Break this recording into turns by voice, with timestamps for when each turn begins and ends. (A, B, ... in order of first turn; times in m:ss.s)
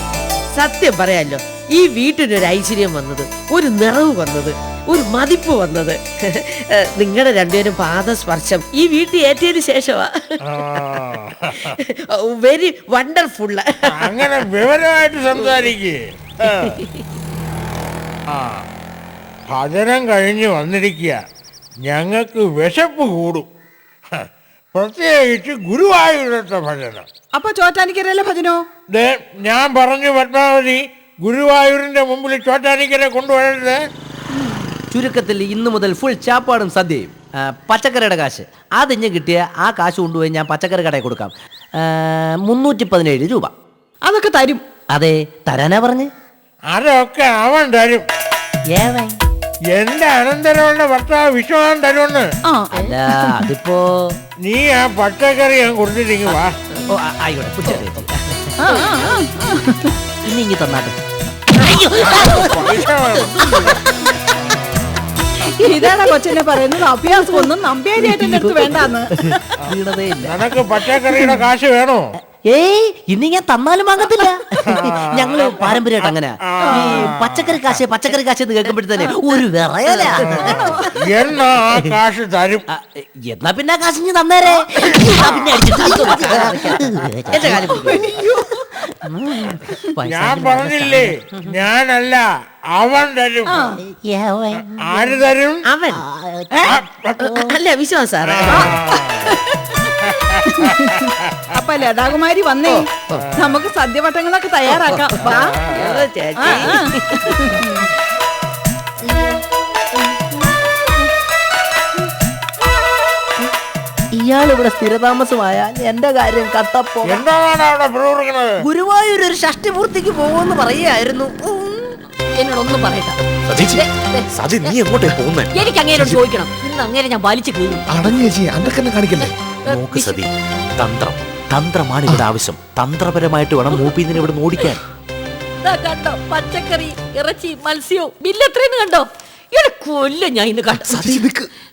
0:00.5-0:10.1 A
0:10.5-0:11.7 B
0:10.7-0:11.0 A
0:11.6-0:14.4 A
0:13.8-0:16.8 B
0:15.4-0:15.6 A
0:16.6-0:17.0 A
0:18.3-0:18.7 B
0:19.5-0:21.2 B
0:21.8-0:23.5 B
0:24.1-0:27.1 B
0:27.3-0:28.6 C
0:28.9-0:33.8 B
0:34.3-0:34.7 C
0:34.9-0:43.5 D
0:44.0-0:44.6 C
0:44.9-0:46.1 D
0:46.7-0:48.1 B
0:48.7-0:49.1 D
0:49.7-0:52.3 B
0:52.4-0:53.5 C
0:52.7-0:54.1 D
0:54.4-0:56.6 B
0:56.9-0:58.5 D
0:58.6-0:59.9 C
1:00.2-1:00.9 D
1:01.6-1:03.6 D
1:01.9-1:03.8 B
1:04.4-1:05.1 B
1:05.5-1:09.4 C
1:08.0-1:10.4 D
1:09.6-1:12.1 B
1:12.5-1:20.6 D
1:14.6-1:17.8 B
1:16.6-1:17.1 C
1:20.2-1:22.6 B
1:22.7-1:28.3 D
1:24.9-1:28.2 A
1:27.8-1:28.7 C
1:28.9-1:31.5 D
1:30.0-1:33.6 B
1:33.5-1:33.8 C
1:33.7-1:35.1 D
1:34.5-1:35.7 B
1:35.7-1:36.0 A
1:36.6-1:37.4 B
1:37.2-1:38.7 A
1:38.2-1:39.4 B
1:40.1-1:40.7 B
1:40.5-1:40.9 C
1:41.2-1:41.5 B
1:41.5-1:45.6 C
1:42.6-1:43.3 A
1:43.1-1:43.6 B
1:44.7-1:47.6 A
1:45.3-1:45.9 B
1:46.4-1:47.9 C
1:54.1-1:57.2 D
1:57.0-1:58.6 B
1:58.6-2:01.5 D
2:02.4-2:04.8 E
2:03.5-2:03.8 F
2:04.3-2:06.2 F
2:05.5-2:10.2 E
2:09.7-2:10.3 F
2:10.8-2:14.8 F
2:15.6-2:21.3 E